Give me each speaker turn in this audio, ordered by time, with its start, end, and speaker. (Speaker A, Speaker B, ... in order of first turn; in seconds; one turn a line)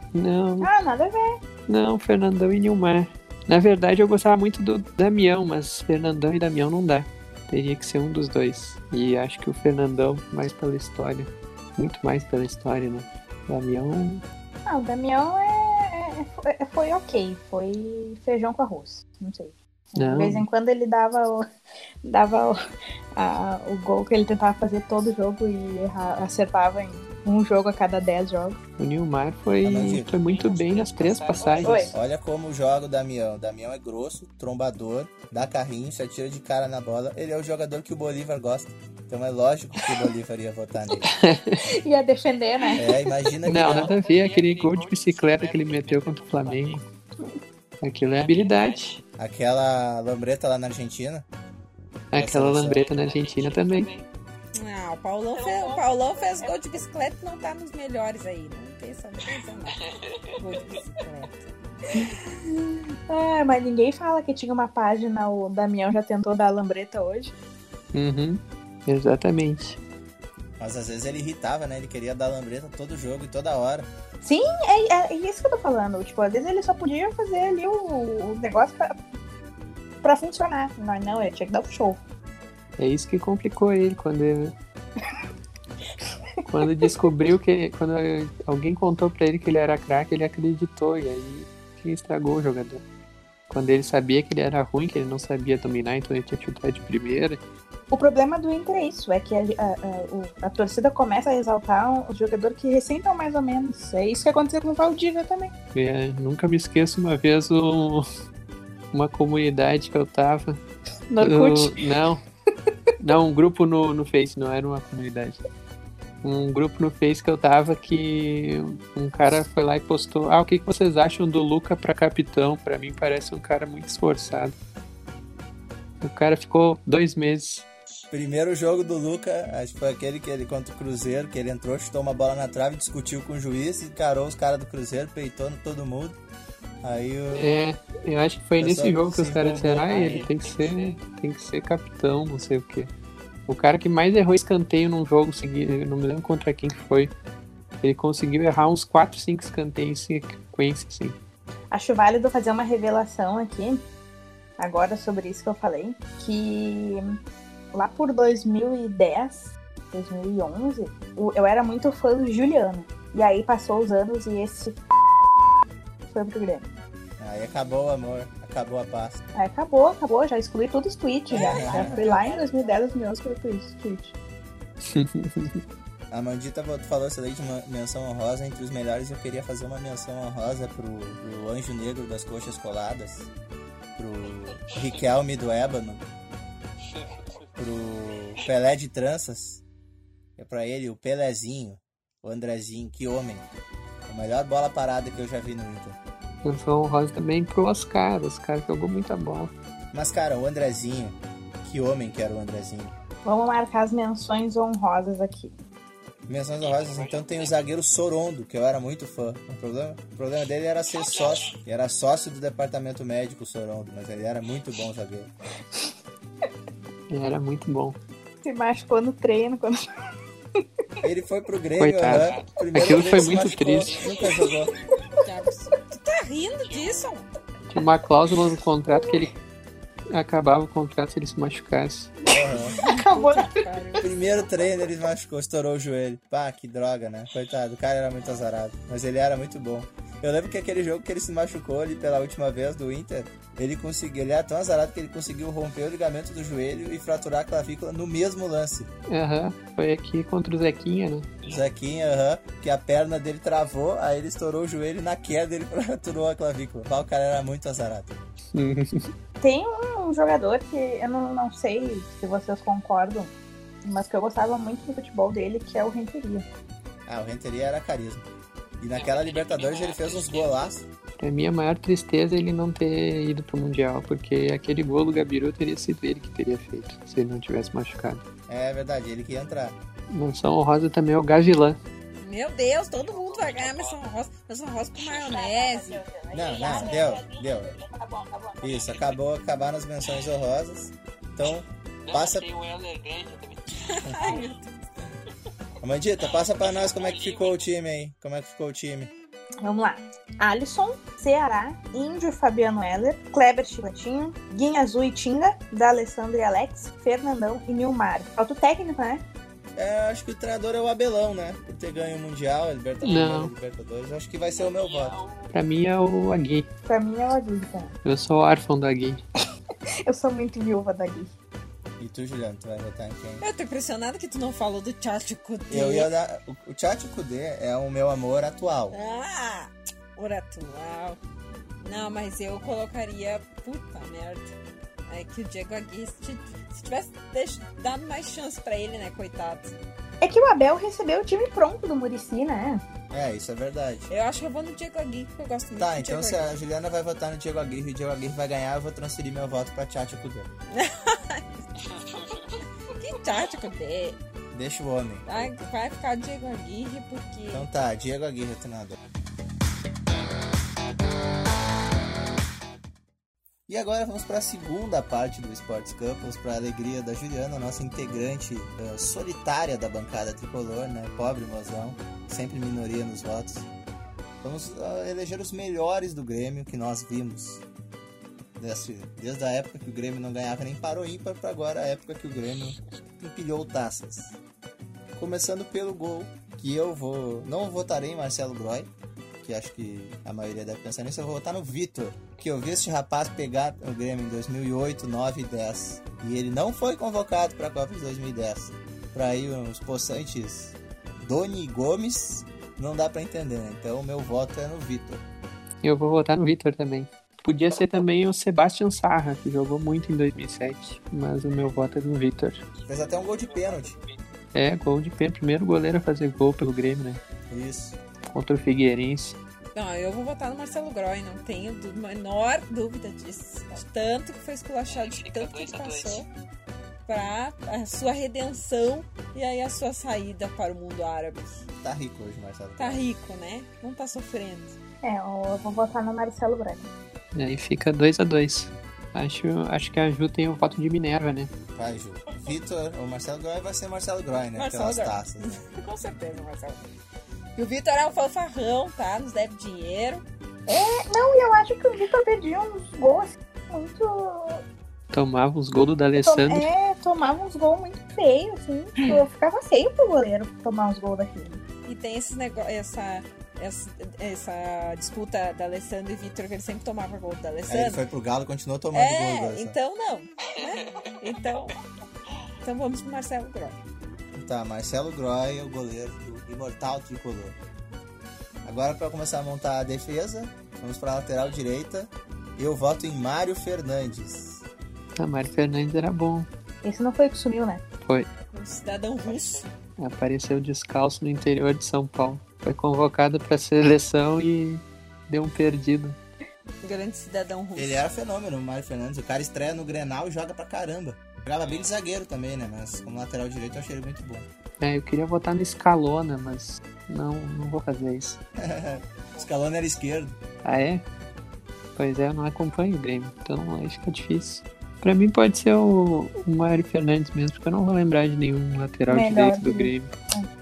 Speaker A: 0.1-0.7
Speaker B: 0.6-1.4
Speaker A: 1.7-14.2
Speaker B: 14.7-21.5
Speaker A: 20.0-20.5
Speaker B: 22.0-22.6
Speaker B: 23.1-28.6
Speaker A: 28.8-31.9
Speaker C: 29.6-30.1
Speaker D: 30.1-31.9
Speaker B: 31.6-31.9
Speaker C: 31.9-41.1
Speaker A: 41.0-41.6
Speaker B: 41.6-43.1
Speaker C: 42.8-43.9
Speaker A: 43.4-46.8
Speaker D: 43.6-46.8
Speaker A: 47.8-49.0
Speaker D: 48.2-48.8
Speaker C: 49.2-51.2
Speaker A: 52.1-53.9
Speaker C: 52.1-52.9
Speaker D: 52.9-54.1
Speaker E: 54.5-59.8
Speaker D: 55.4-56.8
Speaker D: 59.9-60.6
Speaker E: 60.4-61.5
Speaker B: 61.9-67.3
Speaker A: 67.9-69.8
Speaker C: 70.6-73.9
Speaker B: 74.2-78.9
Speaker B: 80.0-82.0
Speaker A: 82.8-84.5
Speaker A: 86.5-92.8
Speaker A: 93.5-97.4
Speaker B: 97.9-105.5
Speaker A: 105.7-108.1
Speaker A: 108.9-110.6
Speaker B: 111.1-111.8
Speaker A: 111.2-112.2
Speaker A: 113.0-115.4
Speaker A: 116.2-124.5
Speaker A: 126.0-127.7
Speaker C: 128.1-136.2
Speaker C: 136.8-137.5
Speaker A: 137.3-142.9
Speaker C: 138.6-140.3
Speaker A: 143.5-147.1
Speaker A: 147.8-151.2
Speaker B: 151.7-153.8
Speaker B: 154.6-157.2
Speaker B: 157.7-164.8
Speaker B: 166.1-166.7
Speaker C: 167.2-169.2
Speaker B: 169.3-174.1
Speaker C: 171.3-172.1
Speaker D: 171.3-172.9
Speaker A: 174.8-175.6
Speaker C: 176.1-183.3
Speaker C: 184.0-186.0
Speaker C: 187.6-189.6
Speaker C: 190.4-193.5
Speaker C: 194.1-196.0
Speaker A: 196.4-199.5
Speaker C: 199.9-202.9
Speaker B: 203.2-205.6
Speaker C: 206.3-215.3
Speaker D: 206.6-207.5
Speaker D: 210.9-211.5
Speaker A: 217.1-218.0
Speaker B: 218.4-219.8
Speaker C: 221.0-224.7
Speaker A: 221.8-224.0
Speaker D: 222.2-224.2
Speaker E: 225.2-227.3
Speaker D: 226.6-227.1
Speaker A: 227.7-229.3
Speaker A: 230.1-232.1
Speaker B: 232.3-234.1
Speaker C: 232.3-232.8
Speaker E: 232.7-234.1
Speaker C: 234.0-248.9
Speaker A: 249.1-251.3
Speaker C: 251.5-258.1
Speaker A: 258.5-259.1
Speaker B: 259.4-263.3
Speaker B: 263.9-266.5
Speaker C: 267.1-268.3
Speaker C: 268.8-270.9
Speaker D: 268.9-270.6
Speaker A: 271.2-278.2
Speaker C: 278.5-279.8
Speaker A: 280.1-281.8
Speaker E: 282.2-286.0
Speaker D: 283.0-284.0
Speaker B: 285.3-288.7
Speaker C: 286.3-287.7
Speaker D: 286.6-287.1
Speaker C: 288.6-292.5
Speaker D: 292.1-294.4
Speaker E: 293.8-294.7
Speaker C: 294.0-294.4
Speaker C: 295.8-299.1
Speaker D: 296.6-297.6
Speaker B: 299.6-309.2
Speaker C: 309.8-315.2
Speaker A: 313.0-313.5
Speaker D: 314.6-315.5
Speaker A: 315.5-316.7
Speaker B: 316.9-317.9
Speaker A: 318.0-319.2
Speaker B: 320.1-321.3
Speaker C: 322.0-323.4
Speaker E: 323.4-326.1
Speaker C: 325.7-329.0
Speaker E: 328.9-331.2
Speaker E: 331.8-334.5
Speaker E: 335.1-339.7
Speaker B: 340.2-342.8
Speaker C: 343.1-344.1
Speaker E: 344.1-346.5
Speaker C: 345.8-350.5
Speaker E: 350.7-351.6
Speaker E: 352.9-354.2
Speaker C: 354.5-355.5
Speaker E: 355.3-357.7
Speaker C: 357.5-359.0
Speaker C: 363.7-373.7
Speaker C: 374.4-377.6
Speaker C: 378.6-384.4
Speaker C: 385.1-388.9
Speaker C: 389.4-405.2
Speaker A: 405.8-412.6
Speaker C: 412.9-414.0
Speaker D: 412.9-414.2
Speaker A: 414.5-417.2
Speaker C: 417.5-418.0
Speaker A: 418.3-419.4
Speaker E: 419.8-426.3
Speaker D: 425.0-426.2
Speaker E: 427.1-431.6
Speaker C: 431.8-433.0
Speaker E: 432.8-434.8
Speaker B: 435.0-436.9
Speaker A: 437.3-441.5
Speaker C: 441.8-445.6
Speaker E: 444.6-446.9
Speaker E: 447.6-450.2
Speaker B: 450.7-454.6
Speaker A: 455.1-456.7
Speaker B: 456.2-461.6
Speaker E: 461.9-468.0
Speaker C: 467.7-469.8
Speaker E: 468.9-471.8
Speaker D: 470.6-471.1
Speaker E: 472.6-473.8
Speaker C: 474.3-477.6
Speaker C: 478.6-484.6
Speaker A: 485.1-486.5
Speaker B: 486.8-487.8
Speaker E: 488.5-489.7
Speaker A: 490.0-496.2
Speaker E: 496.8-498.0
Speaker C: 497.8-504.5
Speaker A: 504.8-508.4
Speaker C: 508.6-510.3
Speaker A: 510.6-511.0
Speaker A: 512.0-520.1
Speaker B: 519.1-520.5